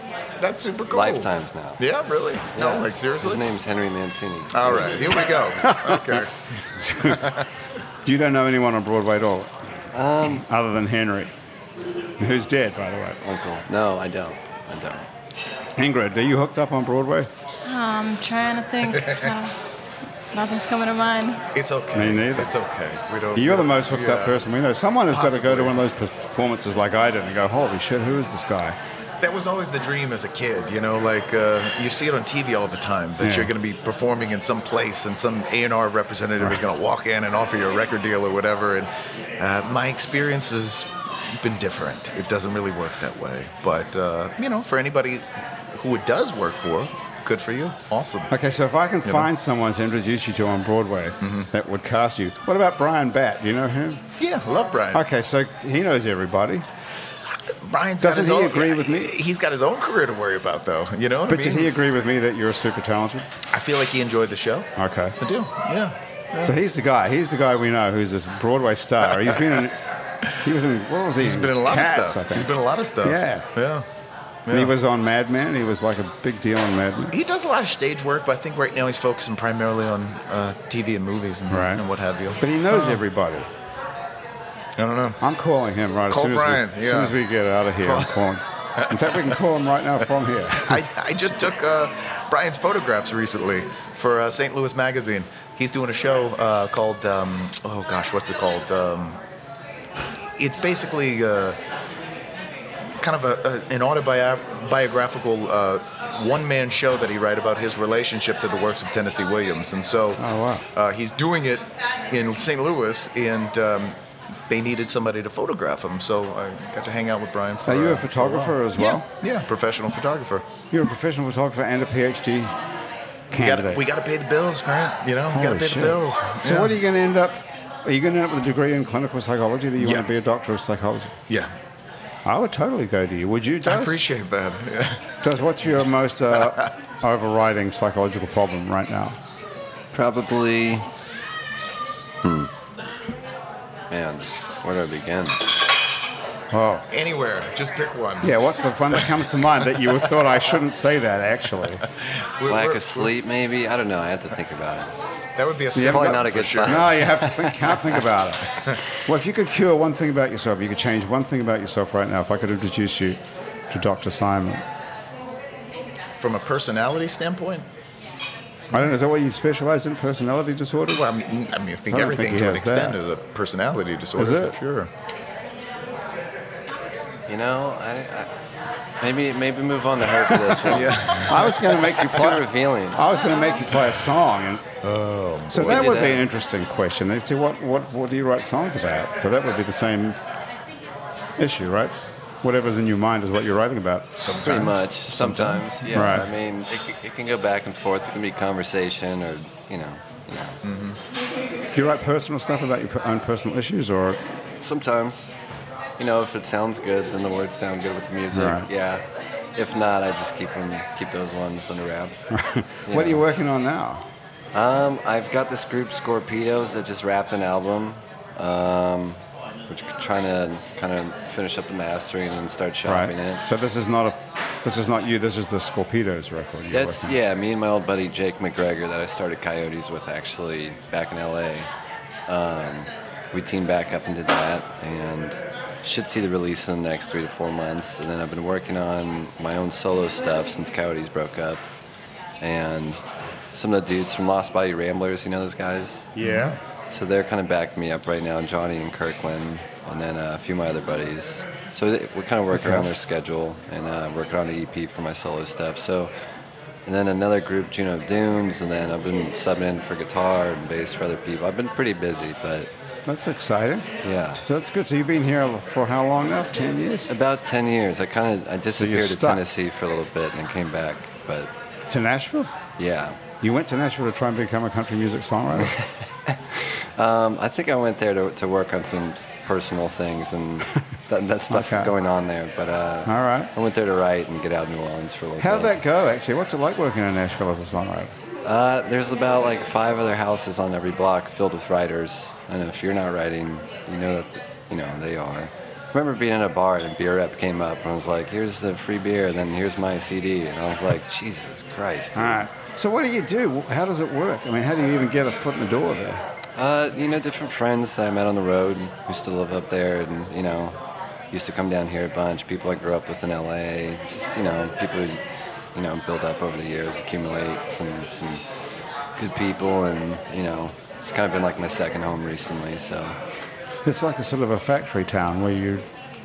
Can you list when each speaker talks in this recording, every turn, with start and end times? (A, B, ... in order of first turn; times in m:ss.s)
0:00.4-0:03.4 A
0:00.9-0:01.8 B
0:02.5-0:05.4 B
0:04.5-0:07.4 A
0:05.6-0:06.2 C
0:06.8-0:07.3 C
0:08.0-0:09.5 C
0:09.9-0:10.4 B
0:10.2-0:11.3 C
0:12.2-0:13.2 C
0:13.2-0:15.1 B
0:15.8-0:17.3 C
0:17.6-0:19.5 D
0:20.3-0:21.4 D
0:21.5-0:24.4 A
0:21.9-0:22.5 C
0:23.3-0:28.8 C
0:25.1-0:25.8 A
0:29.2-0:48.3 A
0:33.2-0:33.5 C
0:48.3-0:54.0 C
0:51.2-0:51.5 A
0:54.2-0:55.0 A
0:54.9-0:56.6 C
0:57.5-1:01.7 A
0:58.0-0:59.2 C
1:01.3-1:03.3 C
1:03.5-1:06.5 A
1:04.8-1:05.2 C
1:06.4-1:09.8 C
1:10.3-1:13.5 C
1:11.2-1:13.8 A
1:14.4-1:14.7 A
1:14.5-1:17.1 C
1:17.1-1:23.0 A
1:21.5-1:21.8 C
1:22.4-1:23.5 C
1:24.8-1:25.2 A
1:25.2-1:30.8 C
1:26.1-1:27.1 A
1:27.8-1:29.3 A
1:30.6-1:39.2 A
1:40.2-1:41.6 A
1:43.0-1:54.0 A
1:50.2-1:50.6 C
1:54.5-2:00.4 A
1:57.6-1:59.0 C
2:00.7-2:02.6 C
2:03.3-2:03.8 C
2:03.4-2:06.7 A
2:05.3-2:11.1 C
2:09.8-2:10.0 A
2:12.2-2:14.0 C
2:13.6-2:15.1 A
2:15.2-2:19.2 C
2:19.9-2:20.9 B
2:22.2-2:22.5 B
2:23.9-2:25.4 B
2:26.5-2:26.9 C
2:26.9-2:28.4 A
2:28.2-2:31.8 C
2:32.4-2:33.1 A
2:32.5-2:34.9 B
2:35.4-2:36.9 A
2:35.7-2:44.6 C
2:35.8-2:38.0 B
2:46.2-2:47.6 A
2:48.7-2:51.1 C
2:50.9-2:54.9 A
2:51.8-2:53.0 C
2:54.2-2:54.6 C
2:57.3-2:58.3 B
2:59.0-3:03.1 B
3:00.4-3:04.6 C
3:00.6-3:01.9 A
3:03.3-3:03.6 D
3:04.8-3:05.8 A
3:05.5-3:10.2 C
3:05.6-3:06.2 B
3:11.4-3:14.4 C
3:14.2-3:14.8 A
3:14.4-3:20.6 B
3:15.1-3:16.3 C
3:20.6-3:21.0 A
3:21.7-3:24.2 C
3:24.6-3:25.4 B
3:26.0-3:29.0 B
3:28.3-3:28.7 C
3:29.6-3:32.3 B
3:32.3-3:34.0 C
3:32.9-3:33.2 B
3:34.5-3:43.4 B
3:42.8-3:47.1 C
3:46.7-3:51.7 B
3:52.3-4:01.6 B
4:02.4-4:03.0 B
4:03.5-4:06.1 B
4:06.2-4:06.6 C
4:06.2-4:06.6 A
4:06.9-4:16.1 B
4:12.5-4:12.9 C
4:16.8-4:22.7 B
4:23.0-4:23.9 C
4:24.0-4:24.4 B
4:24.4-4:27.1 C
4:27.1-4:31.5 B
4:28.7-4:29.4 C
4:31.9-4:32.5 C
4:32.8-4:33.2 B
4:33.4-4:35.8 C
4:35.6-4:36.4 B
4:37.0-4:45.8 B
4:41.5-4:41.9 C
4:43.0-4:43.5 C
4:45.4-4:48.1 C
4:48.4-5:02.5 B
5:02.2-5:06.2 C
5:06.6-5:10.8 B
5:11.3-5:15.2 B
5:15.7-5:18.4 B
5:19.2-5:23.2 B
5:23.8-5:25.8 C